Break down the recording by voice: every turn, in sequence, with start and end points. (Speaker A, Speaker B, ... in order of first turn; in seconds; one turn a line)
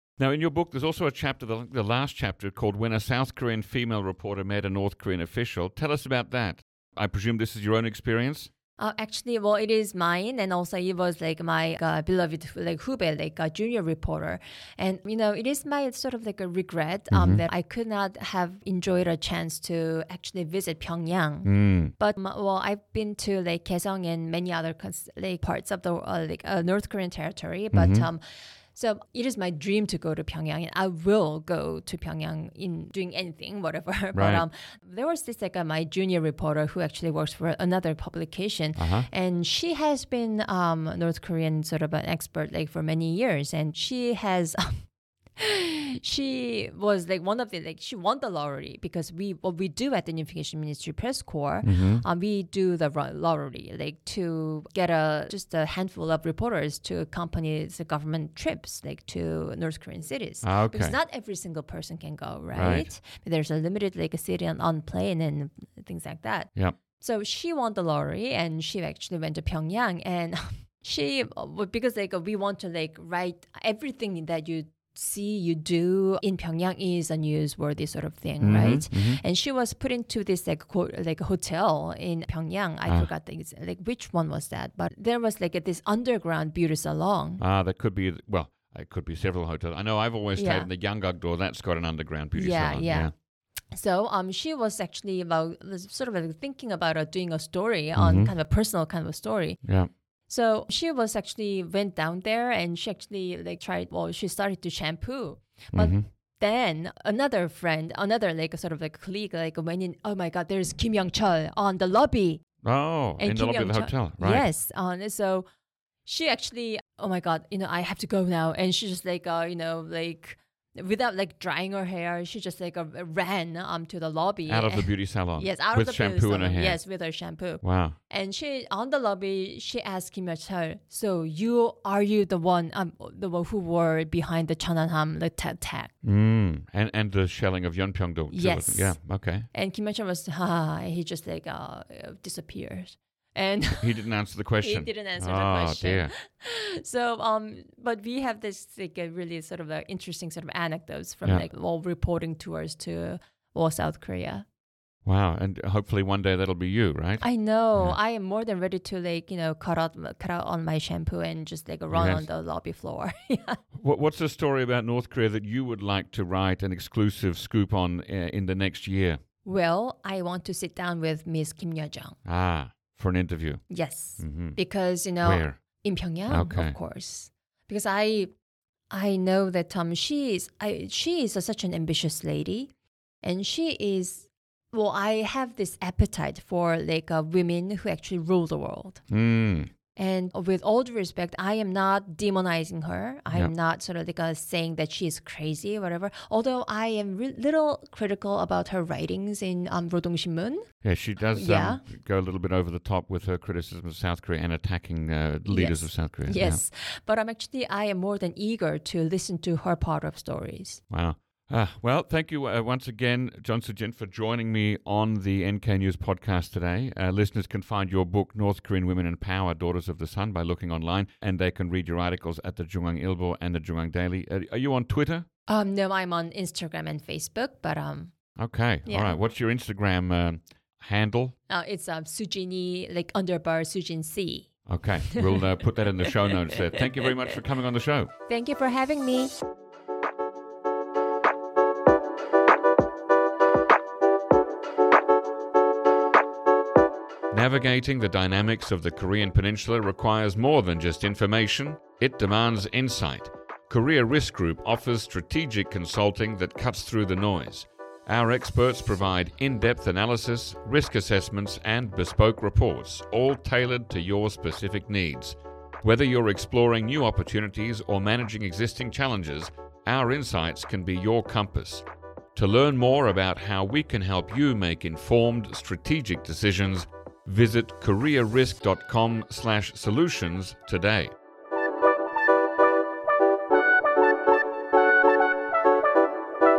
Speaker A: 0.2-8.5
Speaker B: 8.8-28.2
Speaker A: 17.1-17.4
Speaker A: 21.4-21.9
Speaker A: 27.7-28.1
Speaker B: 28.7-44.9
Speaker A: 34.1-34.5
Speaker A: 38.8-39.1
Speaker B: 45.4-87.4
Speaker A: 51.6-52.0
Speaker A: 60.4-61.0
Speaker A: 62.5-62.9
Speaker A: 78.4-79.2
Speaker A: 87.4-93.1
Speaker B: 90.4-90.7
Speaker B: 92.3-93.1
Speaker B: 93.7-99.6
Speaker A: 98.0-98.3
Speaker A: 99.6-99.9
Speaker B: 100.3-112.4
Speaker A: 105.7-106.1
Speaker A: 112.6-114.5
Speaker B: 113.2-115.5
Speaker B: 116.1-135.9
Speaker A: 124.5-126.8
Speaker A: 127.6-128.0
Speaker A: 136.0-139.5
Speaker B: 138.3-139.0
Speaker B: 139.5-144.0
Speaker A: 143.8-146.1
Speaker B: 144.6-154.5
Speaker A: 155.1-157.2
Speaker B: 157.2-163.6
Speaker A: 161.9-162.3
Speaker A: 163.8-169.2
Speaker B: 169.4-172.2
Speaker A: 172.2-173.6
Speaker B: 173.7-178.3
Speaker A: 174.2-174.6
Speaker A: 175.2-175.6
Speaker A: 176.3-176.8
Speaker B: 178.9-182.7
Speaker B: 183.2-189.0
Speaker A: 189.1-189.7
Speaker B: 190.0-200.7
Speaker A: 200.8-206.6
Speaker B: 201.3-201.8
Speaker B: 205.5-210.8
Speaker A: 210.9-225.3
Speaker B: 225.5-228.1
Speaker A: 228.4-231.4
Speaker B: 228.9-229.2
Speaker B: 231.5-234.5
Speaker A: 234.7-238.1
Speaker B: 235.1-235.5
Speaker B: 236.1-237.4
Speaker B: 238.3-239.3
Speaker A: 247.3-281.1